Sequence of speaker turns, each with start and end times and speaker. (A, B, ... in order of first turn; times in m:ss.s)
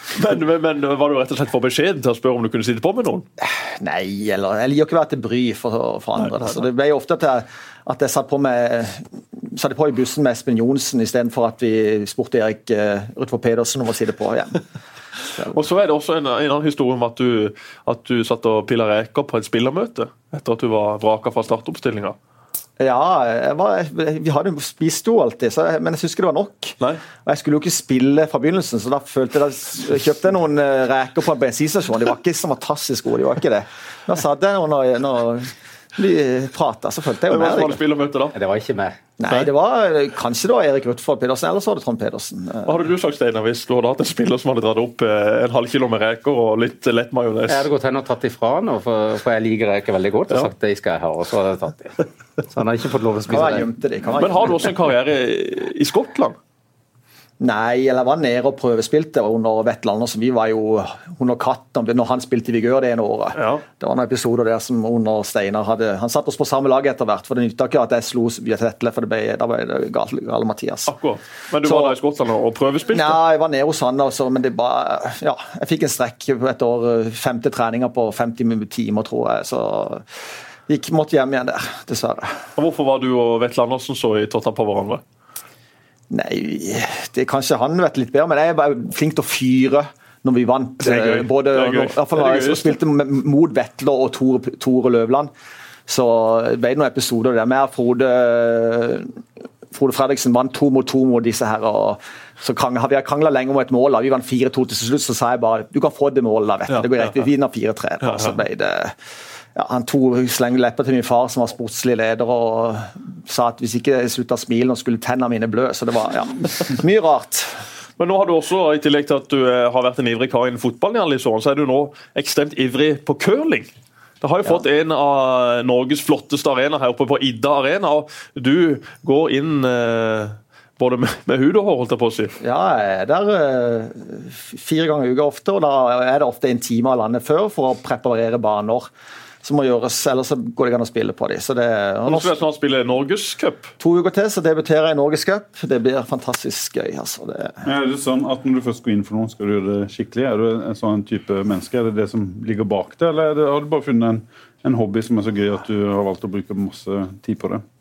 0:00.1-0:03.2 A
0:03.4-0:14.6 B
0:15.4-0:22.2 A
0:22.8-0:37.8 B
0:37.3-0:38.3 A
0:38.3-0:39.0 C
0:39.2-0:42.8 B
0:42.6-0:47.7 A
0:47.5-0:53.7 C
0:53.3-0:54.6 B
0:54.2-0:56.4 A
0:57.4-1:10.9 B
1:03.3-1:03.6 A
1:10.9-1:13.2 A
1:11.6-1:11.9 B
1:12.9-1:20.0 B
1:20.7-1:22.4 B
1:22.6-1:25.0 A
1:26.1-1:35.3 B
1:30.8-1:32.8 A
1:35.9-1:39.1 B
1:39.7-1:48.9 B
1:46.7-1:47.1 A
1:48.0-1:48.4 A
1:49.5-1:57.6 B
1:58.0-2:03.7 A
2:04.2-2:12.3 A
2:12.4-2:18.9 B
2:19.4-2:22.3 B
2:22.0-2:23.7 A
2:23.8-2:27.6 B
2:27.6-2:37.6 D